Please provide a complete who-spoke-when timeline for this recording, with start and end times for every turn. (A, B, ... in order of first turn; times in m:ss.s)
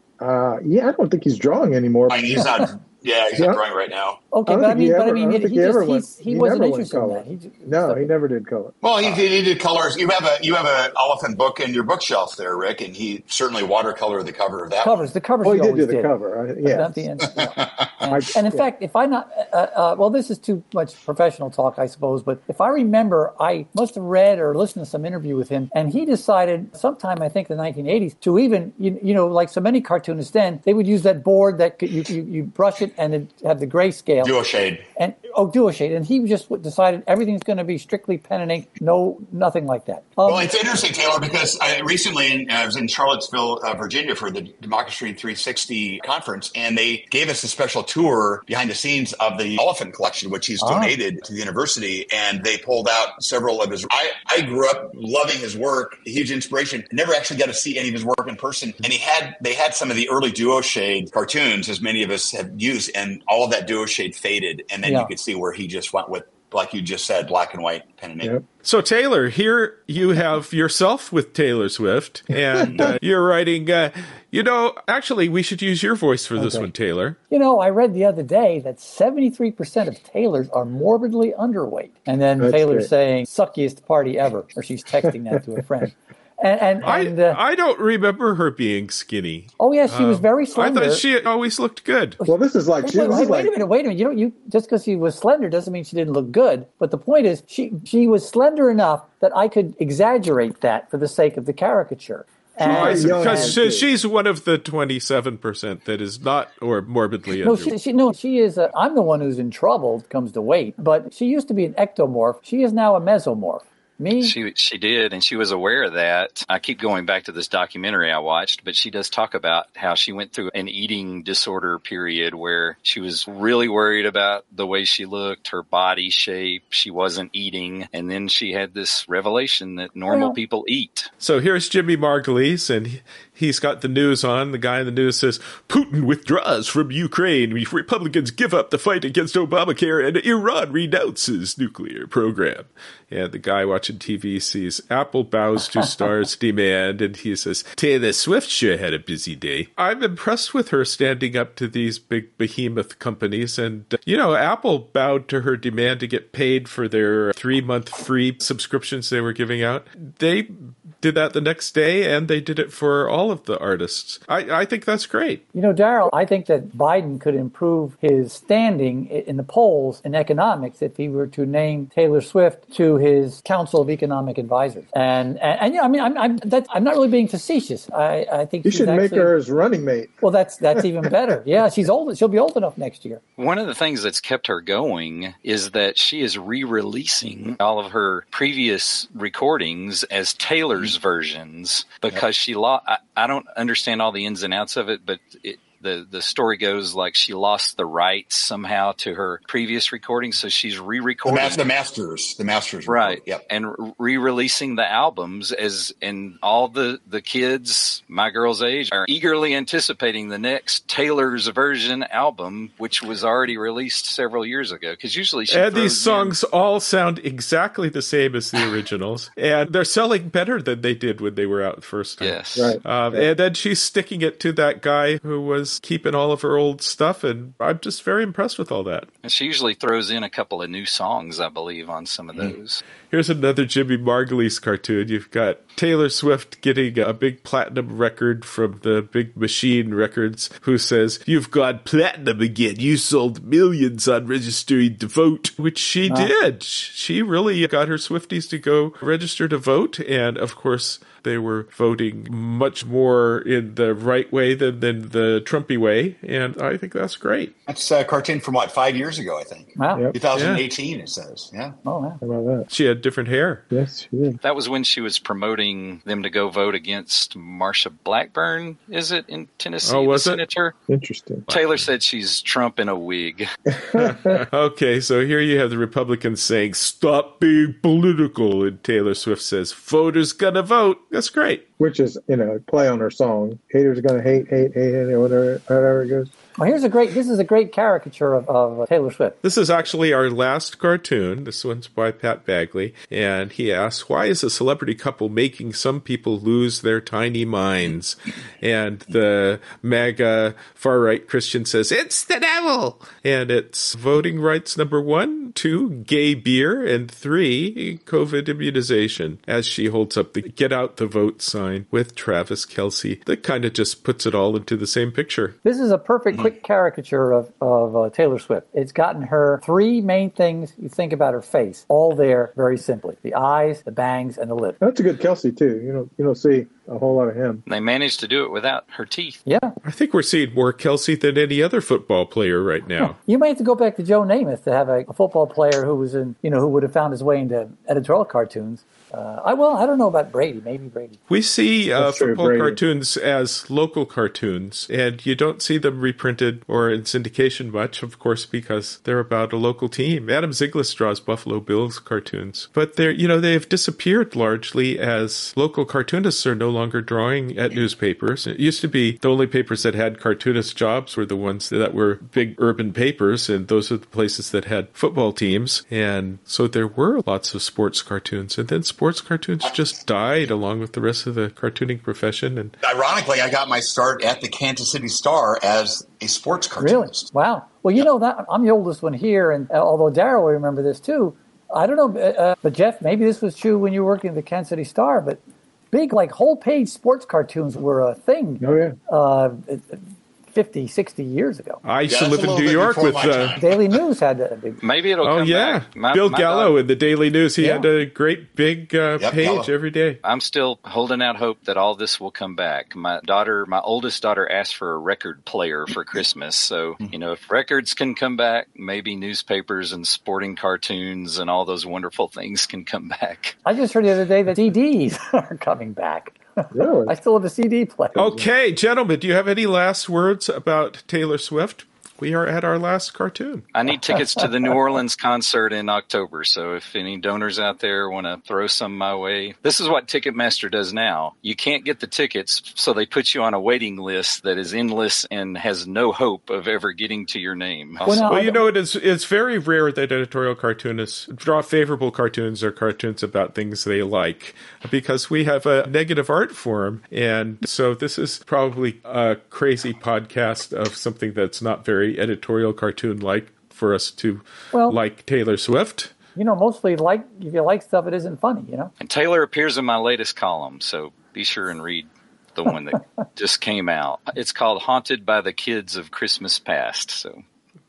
0:00.2-0:02.5 A
0:02.1-0:04.2 B
0:04.3-0:08.0 C
0:04.4-0:09.2 A
0:08.8-0:15.1 B
0:14.8-0:16.1 C
0:15.4-0:17.0 A
0:16.6-0:34.4 C
0:17.2-0:18.1 B
0:18.1-0:18.6 A
0:34.2-0:34.8 B
0:35.0-0:40.5 C
0:40.2-1:08.3 B
0:50.6-0:51.0 C
1:04.8-1:05.1 C
1:08.6-1:17.2 D
1:16.4-1:16.6 A
1:17.3-1:27.4 C
1:22.4-1:22.9 A
1:26.8-1:32.2 D
1:29.6-1:31.0 C
1:32.2-1:43.6 C
1:32.2-1:33.6 A
1:42.6-1:47.7 D
1:42.6-1:43.9 A
1:47.4-1:54.3 C
1:54.2-2:11.1 E
2:10.1-2:10.4 C
2:11.2-2:45.4 D
2:45.5-2:59.3 C
2:58.6-3:00.2 A
3:00.2-3:03.2 C
3:00.7-3:01.1 A
3:03.4-3:21.6 E
3:21.2-3:23.4 B
3:22.9-3:36.3 E
3:35.5-3:49.1 D
3:42.2-3:42.8 E
3:42.6-3:43.3 A
3:49.2-3:52.8 E
3:53.1-4:17.5 D
4:17.7-4:21.8 B
4:19.8-4:20.1 C
4:20.3-4:20.6 D
4:21.8-4:22.2 C
4:22.2-4:22.7 A
4:22.7-4:23.6 D
4:23.7-4:24.4 A
4:24.4-4:30.7 E
4:29.8-4:30.4 D
4:30.9-4:31.6 A
4:31.5-4:33.5 E
4:33.7-4:34.4 A
4:34.0-4:41.6 D
4:41.8-4:46.3 A
4:46.6-4:49.4 C
4:49.4-5:15.6 D
5:15.6-5:24.8 C
5:24.8-5:27.6 A
5:27.7-5:29.4 E
5:29.5-5:29.8 C
5:29.8-5:33.2 D
5:33.0-5:41.2 C
5:41.3-6:12.7 D
5:42.0-5:42.8 A
6:12.8-6:17.3 B
6:16.8-6:25.4 C
6:25.9-6:31.8 C
6:28.6-6:29.0 A
6:31.8-6:33.6 D
6:32.1-6:33.8 B
6:33.6-6:34.8 C
6:34.8-6:36.7 E
6:35.2-6:40.2 D
6:37.6-6:37.9 C
6:39.2-6:39.7 B
6:40.2-6:53.6 E
6:53.6-6:58.4 C
6:56.7-6:57.1 A
6:58.2-7:03.6 D
7:03.7-7:18.3 E
7:18.0-7:18.6 C
7:18.2-7:36.1 D
7:34.7-7:35.0 C
7:36.3-7:38.9 C
7:39.0-7:47.4 E